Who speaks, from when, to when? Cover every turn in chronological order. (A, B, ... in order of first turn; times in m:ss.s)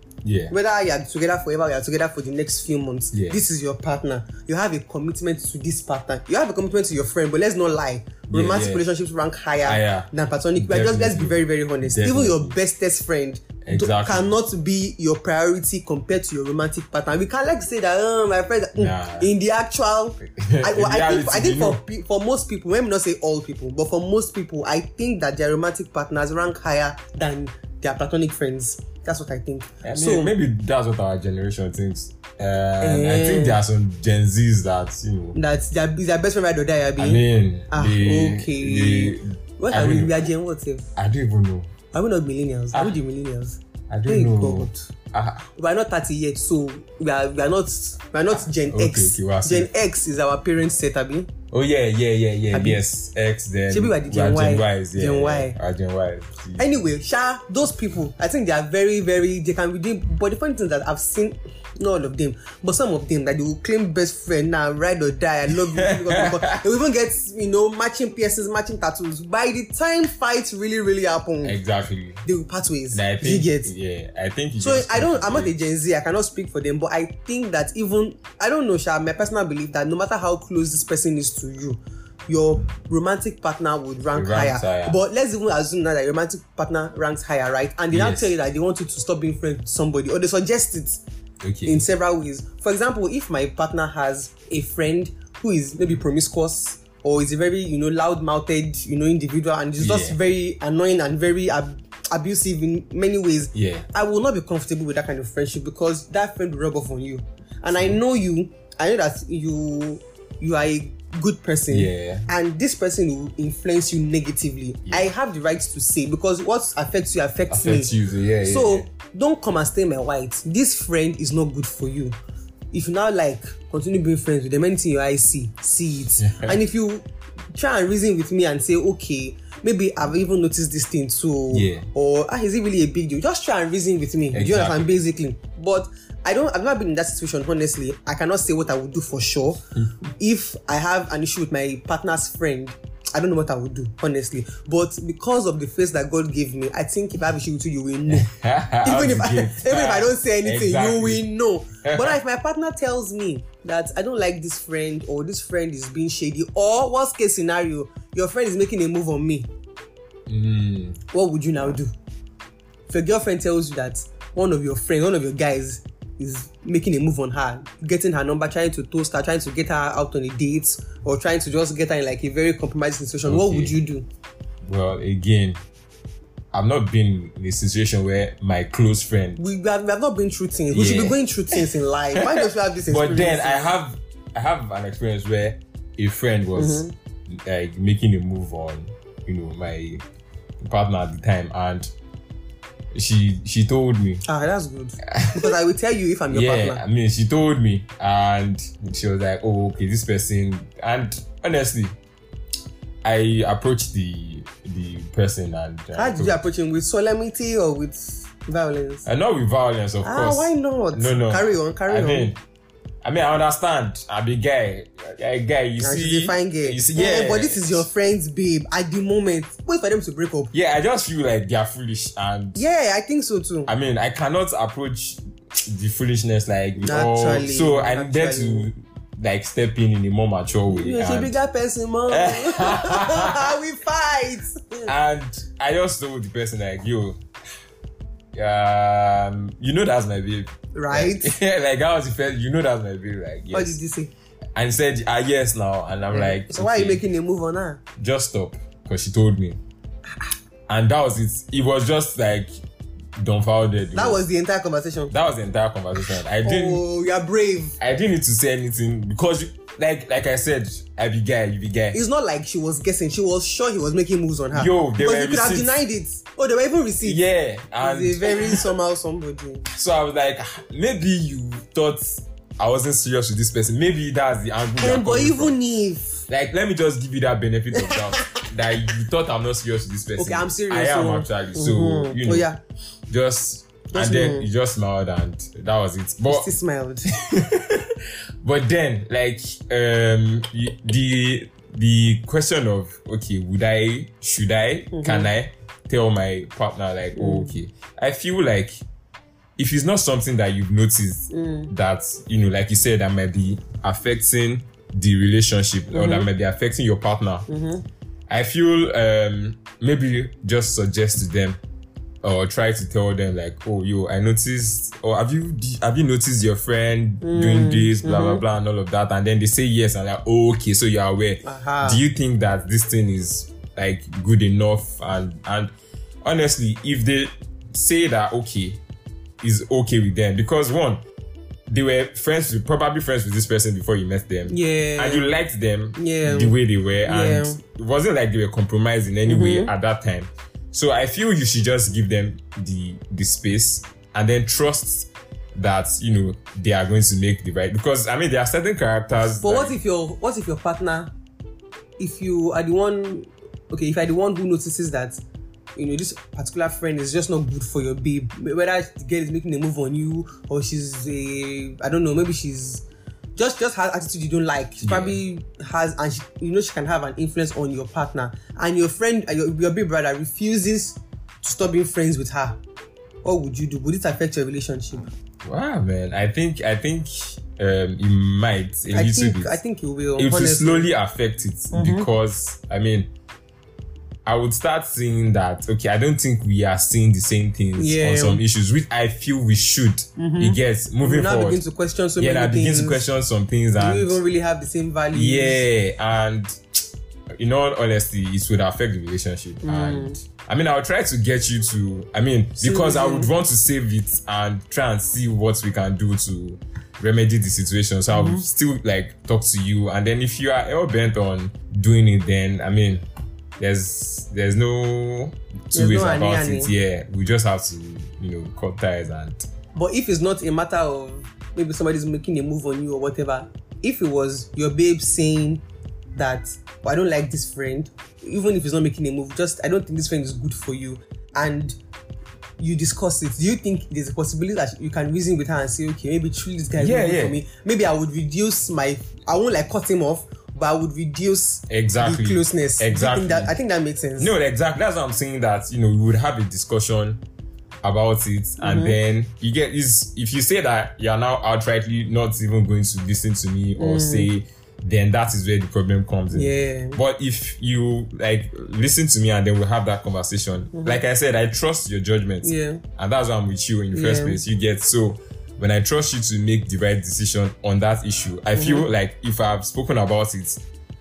0:00.2-0:00.5 A
0:00.5-0:30.3 B
0:03.1-0:03.4 A
0:08.3-0:08.8 A
0:09.6-0:12.6 A
0:13.6-0:14.3 A
0:18.8-0:19.3 A
0:20.3-0:21.8 A
0:29.8-0:35.4 A
0:32.8-0:33.6 B
0:35.4-0:40.9 B
0:37.0-0:40.2 A
0:41.0-0:41.7 A
0:41.9-0:44.9 B
0:43.9-0:45.5 A
0:45.6-0:51.3 B
0:48.7-0:49.7 A
0:51.5-0:56.8 A
0:52.5-0:52.8 B
0:53.7-0:55.6 B
0:56.6-1:11.6 B
1:05.8-1:06.6 A
1:11.4-1:12.2 A
1:12.2-1:13.7 B
1:12.9-1:15.5 A
1:14.6-1:31.0 B
1:24.1-1:25.0 A
1:27.9-1:28.4 A
1:31.4-1:31.8 A
1:31.6-1:57.9 B
1:39.8-1:40.2 A
1:43.6-1:43.9 A
1:51.7-1:52.3 A
1:57.5-1:58.9 A
1:58.4-2:02.2 B
2:02.7-2:19.6 B
2:06.2-2:06.6 A
2:11.5-2:11.9 A
2:14.3-2:14.9 A
2:20.2-2:28.3 B
2:28.1-2:31.2 A
2:28.8-2:39.5 B
2:31.8-2:32.2 A
2:40.3-2:41.0 A
2:41.1-2:41.9 B
2:42.9-2:54.0 B
2:53.3-2:53.8 A
2:54.6-2:55.6 A
2:56.5-2:59.4 A
2:59.4-3:03.8 B
3:00.7-3:01.6 A
3:02.2-3:10.0 A
3:06.6-3:06.9 B
3:10.6-3:11.9 A
3:12.9-3:14.2 A
3:14.2-3:16.8 B
3:15.1-3:15.5 A
3:16.3-3:22.0 A
3:23.0-3:26.4 A
3:25.9-3:29.1 B
3:29.0-3:32.4 A
3:30.0-3:32.3 B
3:33.0-3:37.9 A
3:35.8-3:40.5 B
3:40.5-3:42.6 A
3:42.6-3:43.7 B
3:43.7-3:51.4 A
3:46.8-3:48.7 B
3:50.7-3:54.9 B
3:52.1-3:53.6 A
3:54.9-3:57.2 A
3:58.3-4:03.8 A
4:00.7-4:01.3 B
4:03.5-4:04.1 B
4:04.6-4:07.0 A
4:06.1-4:07.8 B
4:08.0-4:09.6 A
4:10.7-4:12.5 A
4:13.2-4:14.2 A
4:13.9-4:15.1 B
4:15.1-4:16.8 A
4:16.4-4:17.8 B
4:17.8-4:22.0 A
4:21.9-4:27.2 B
4:24.5-4:25.8 A
4:27.0-4:28.7 A
4:27.8-4:29.7 B
4:29.7-4:35.6 A
4:34.8-4:36.3 B
4:36.3-4:42.5 A
4:37.8-4:38.4 B
4:40.2-4:42.6 B
4:43.1-4:46.5 A
4:43.9-4:44.5 B
4:46.3-4:47.1 B
4:47.1-4:58.8 A
4:54.9-4:55.3 B
4:57.2-4:57.5 B
4:59.6-5:07.5 A
5:01.3-5:01.7 B
5:05.9-5:06.3 B
5:07.5-5:07.8 B
5:08.3-5:11.6 A
5:12.2-5:25.7 A
5:17.2-5:18.4 B
5:21.4-5:22.0 B
5:26.2-5:28.8 A
5:29.4-5:31.0 A
5:31.7-5:49.8 A
5:34.5-5:35.3 B
5:36.0-5:37.6 B
5:39.3-5:39.7 B
5:49.4-5:51.1 B
5:52.0-5:55.2 B
5:55.8-6:02.8 B
6:03.4-6:12.6 B
6:04.8-6:05.2 A
6:13.2-6:15.1 B
6:15.4-6:19.6 A
6:18.9-6:20.9 B
6:20.2-6:23.1 A
6:21.7-6:22.1 B
6:24.2-6:31.6 A
6:27.8-6:28.4 B
6:30.2-6:33.0 B
6:32.2-6:34.2 A
6:33.8-6:35.6 B
6:35.1-6:36.6 A
6:37.4-6:53.0 A
6:39.6-6:40.2 B
6:42.6-6:43.3 B
6:48.1-6:48.4 B
6:53.6-6:59.5 A
6:55.7-6:56.7 B
6:59.8-7:05.6 B
7:06.2-7:11.8 B
7:12.6-7:24.3 B
7:16.8-7:17.4 A
7:21.7-7:23.5 A
7:24.2-7:27.2 A
7:27.8-7:50.6 A
7:28.6-7:29.0 B
7:33.8-7:34.3 B
7:36.3-7:37.0 B
7:40.7-7:41.0 B
7:42.4-7:42.8 B
7:43.9-7:44.4 B
7:48.6-7:48.9 B